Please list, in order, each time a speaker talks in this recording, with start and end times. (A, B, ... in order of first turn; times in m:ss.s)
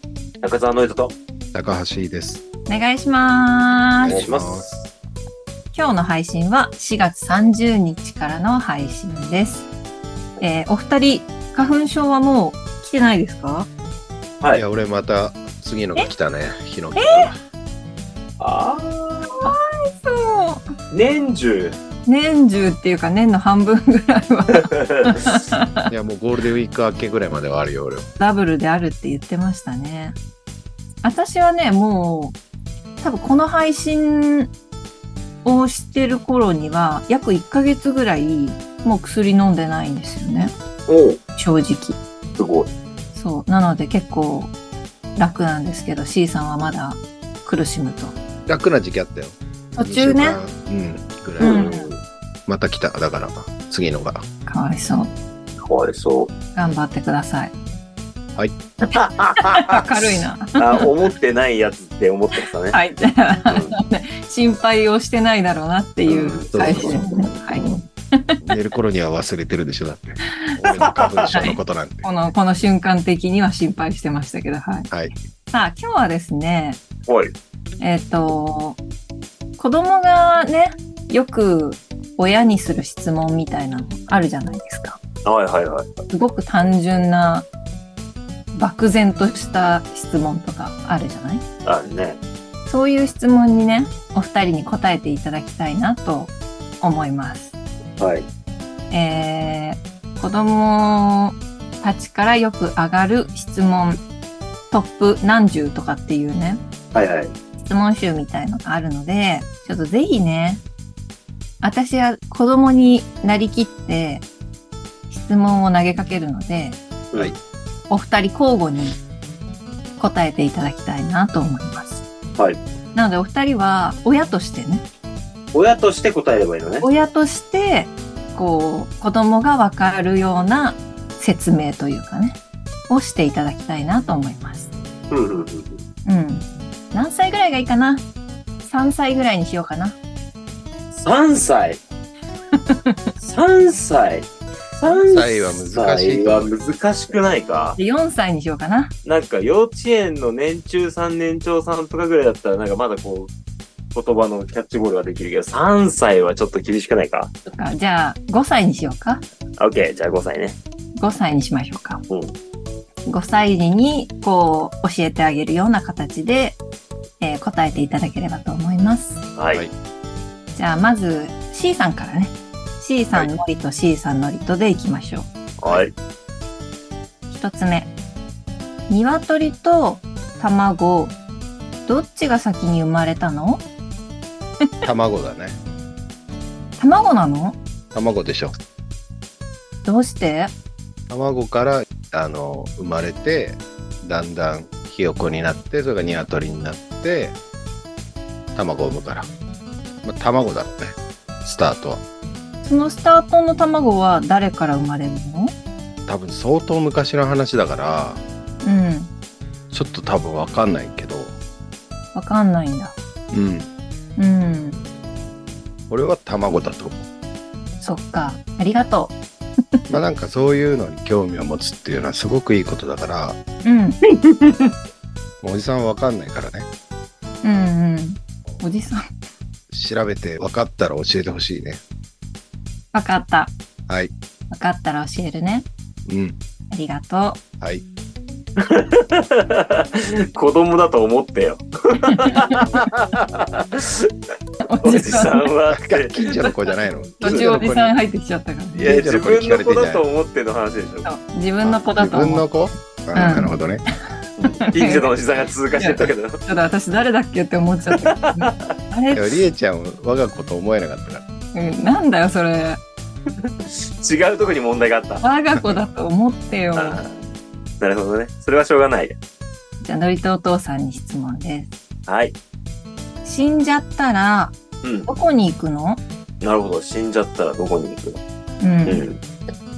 0:00.4-0:01.1 A
0:01.5-0:02.4 B
0:02.7-0:04.1 C
0:04.0-0:04.7 B
0:04.0-0:04.8 A
0:05.7-0:09.7 C
0:10.4-0:13.7 C
0:14.5-0:17.4 B
0:17.0-0:17.3 C
0:18.4-0:19.5 A
0:19.4-0:20.6 C
0:20.9-0:21.8 A
0:22.0-0:25.9 C
0:24.5-0:25.4 A
0:25.9-0:28.1 B
0:28.2-0:30.2 C
0:31.0-0:32.4 C
0:33.0-0:34.5 C
0:35.4-0:40.5 C
0:40.9-0:41.2 A
0:41.4-0:42.0 C
0:42.4-0:42.7 A
0:43.1-0:44.5 C
0:45.2-0:48.2 C
0:48.4-0:51.7 B
0:49.7-0:50.4 C
0:51.4-0:52.0 A
0:51.4-0:51.9 C
0:52.5-0:54.2 B
0:54.4-0:55.1 C
0:55.6-0:56.3 A
0:56.5-0:57.5 C
0:58.9-0:59.8 A
0:59.4-1:00.9 C
1:00.6-1:02.8 A
1:02.7-1:08.4 C
1:03.4-1:03.7 A
1:06.1-1:07.0 A
1:06.5-1:06.9 B
1:08.4-1:12.1 B
1:10.6-1:11.4 A
1:11.3-1:14.9 C
1:15.5-1:16.8 C
1:17.1-1:17.3 A
1:17.8-1:18.8 C
1:19.6-1:25.0 C
1:25.2-1:25.9 A
1:26.1-1:27.5 C
1:28.5-1:31.4 C
1:31.6-1:32.2 A
1:32.6-1:37.5 C
1:38.0-1:38.3 A
1:38.9-1:44.0 C
1:44.7-1:46.6 C
1:46.9-1:47.3 A
1:47.6-1:50.6 C
1:51.6-1:54.2 C
1:55.1-1:56.8 C
1:57.9-1:59.0 C
2:00.0-2:02.0 C
2:02.9-2:04.8 C
2:05.5-2:06.9 A
2:06.8-2:14.7 C
2:15.1-2:15.8 A
2:16.0-2:18.0 C
2:18.6-2:20.0 C
2:20.9-2:21.8 A
2:22.7-2:23.0 C
2:23.2-2:27.8 A
2:24.9-2:26.5 B
2:27.8-2:28.9 C
2:29.0-2:33.3 A
2:33.9-2:37.3 A
2:37.5-2:39.2 C
2:39.6-2:40.6 A
2:41.0-2:42.0 C
2:42.1-2:42.3 A
2:43.0-2:46.6 C
2:47.2-2:49.2 C
2:49.4-2:49.6 A
2:50.5-2:55.3 C
2:55.6-2:55.9 A
2:57.3-2:57.9 C
2:58.9-3:01.2 C
3:01.8-3:03.6 C
3:04.8-3:05.6 B
3:06.8-3:07.6 C
3:07.9-3:08.5 B
3:09.8-3:10.5 C
3:11.1-3:17.4 B
3:18.5-3:19.3 B
3:20.0-3:22.0 B
3:22.6-3:25.5 C
3:26.1-3:28.2 B
3:28.6-3:29.1 C
3:29.7-3:31.4 B
3:32.1-3:33.0 C
3:33.3-3:33.7 B
3:34.2-3:34.8 C
3:35.9-3:37.0 B
3:37.8-3:39.2 C
3:39.9-3:43.4 B
3:43.6-3:44.0 C
3:44.1-3:44.7 A
3:45.4-3:46.7 B
3:47.4-3:49.0 C
3:49.7-3:51.8 B
3:52.9-3:53.5 C
3:54.5-3:55.7 C
3:56.0-3:56.4 B
3:56.7-3:57.4 C
3:58.6-4:04.1 A
4:02.1-4:02.6 C
4:04.6-4:05.5 C
4:04.8-4:06.7 A
4:05.7-4:07.9 B
4:07.2-4:08.9 C
4:07.2-4:07.5 A
4:08.8-4:11.1 A
4:08.8-4:10.0 B
4:11.0-4:12.5 C
4:11.6-4:13.8 B
4:13.1-4:13.5 C
4:14.4-4:16.4 A
4:14.6-4:15.1 C
4:15.8-4:19.3 C
4:17.9-4:18.7 A
4:19.1-4:21.2 B
4:21.5-4:22.8 C
4:23.4-4:25.2 A
4:25.2-4:27.0 C
4:26.7-4:27.2 A
4:27.8-4:29.2 A
4:29.8-4:31.7 C
4:32.1-4:32.4 A
4:33.2-4:36.0 C
4:34.8-4:35.1 A
4:36.4-4:38.2 A
4:38.6-4:39.0 C
4:38.8-4:39.2 A